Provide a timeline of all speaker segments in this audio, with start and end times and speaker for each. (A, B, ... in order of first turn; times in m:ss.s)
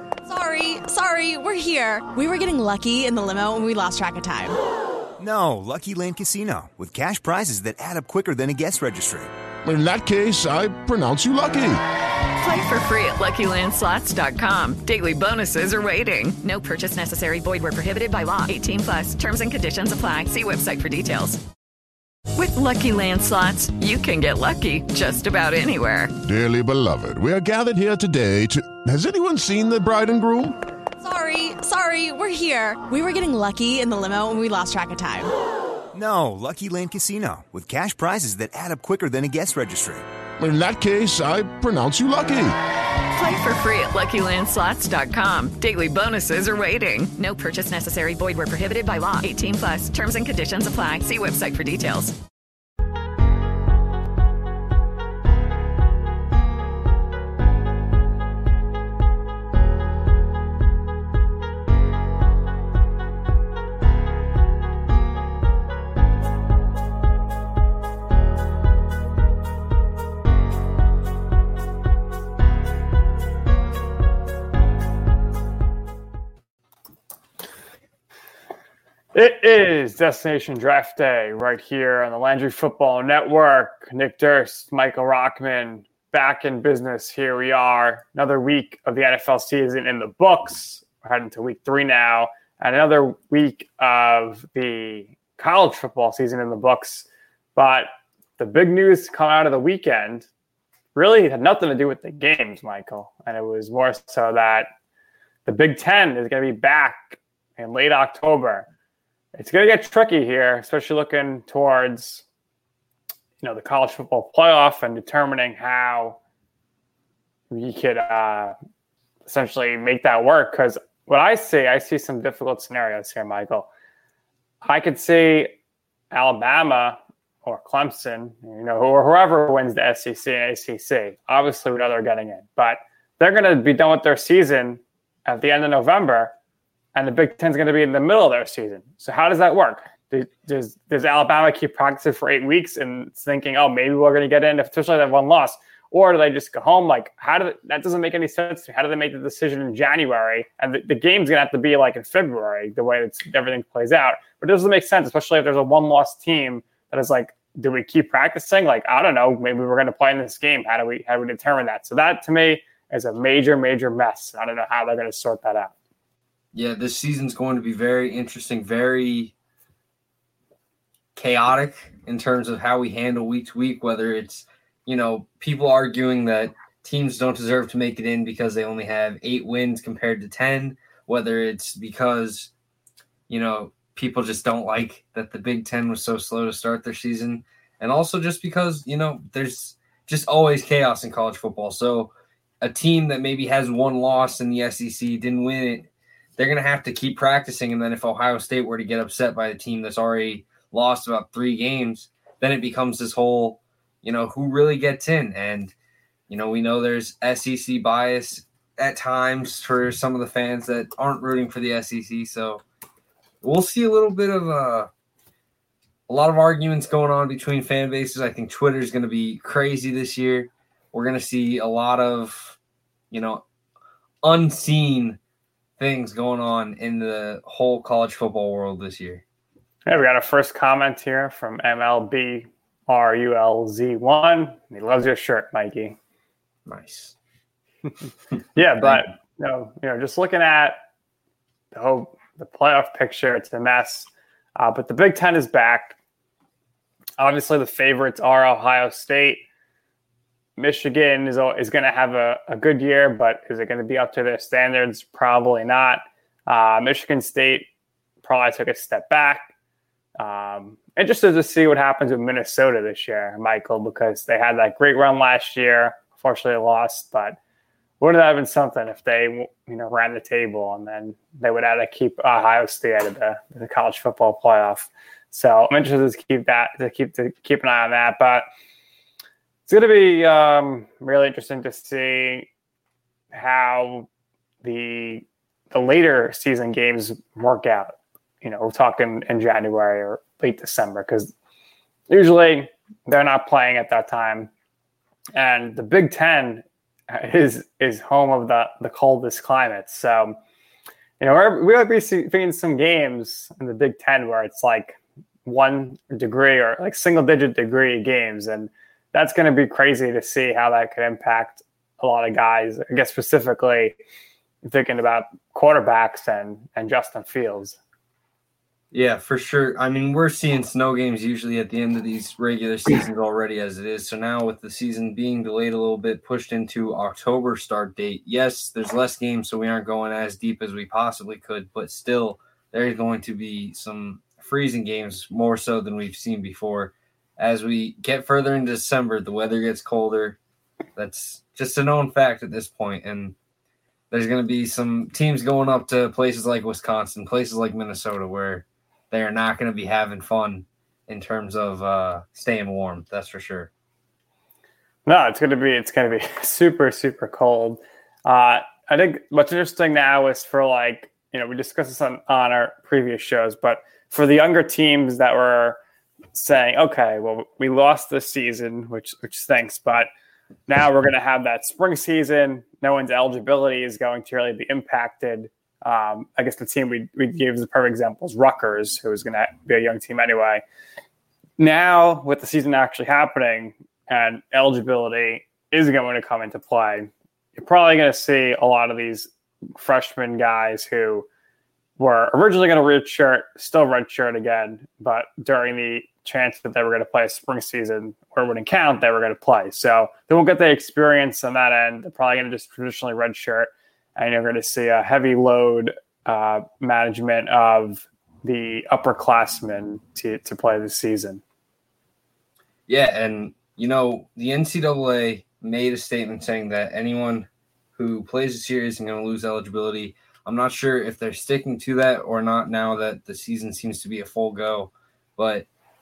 0:00.3-0:04.6 A
0:05.2-0:09.3 B
0:09.6-0:11.8 C
0:12.4-0:21.4 D
0:22.3-0:26.1 D
0:26.2-0:30.6 C
0:31.0-0:35.3 A
0:35.9-0:40.0 B
0:40.4-0:42.6 C
0:43.1-0:52.1 D
1:19.1-1:40.3 E
1:40.9-1:44.7 E
1:45.4-1:48.7 E
1:49.4-1:52.2 E
1:53.4-1:56.2 E
1:57.5-1:58.5 E
1:59.2-2:03.7 E
2:04.6-2:05.6 E
2:06.1-2:16.3 E
2:16.9-2:45.7 E
2:46.5-2:49.3 F
2:51.1-3:02.5 F
3:03.3-3:25.7 F
3:26.3-3:32.6 F
3:33.4-3:34.9 F
3:36.1-3:42.6 F
3:43.1-3:43.4 F
3:44.2-3:45.2 F
3:45.8-3:49.2 F
3:49.9-3:56.0 E
3:56.7-3:57.1 F
3:58.6-4:00.8 E
4:01.7-4:05.9 E
4:07.2-4:09.4 E
4:10.6-4:17.7 E
4:18.2-4:19.5 E
4:20.2-4:27.4 E
4:28.0-4:38.4 E
4:39.7-4:42.5 E
4:43.3-4:44.1 E
4:44.6-4:51.3 E
4:52.1-4:54.5 E
4:55.4-5:00.4 E
5:01.2-5:14.0 E
5:14.6-5:17.8 E
5:18.9-5:40.4 F
5:41.0-5:43.3 F
5:44.1-5:53.7 F
5:55.1-6:05.8 E
6:06.3-6:10.1 E
6:10.7-6:20.6 E
6:21.6-6:31.3 E
6:32.0-6:51.4 E
6:52.9-7:05.6 F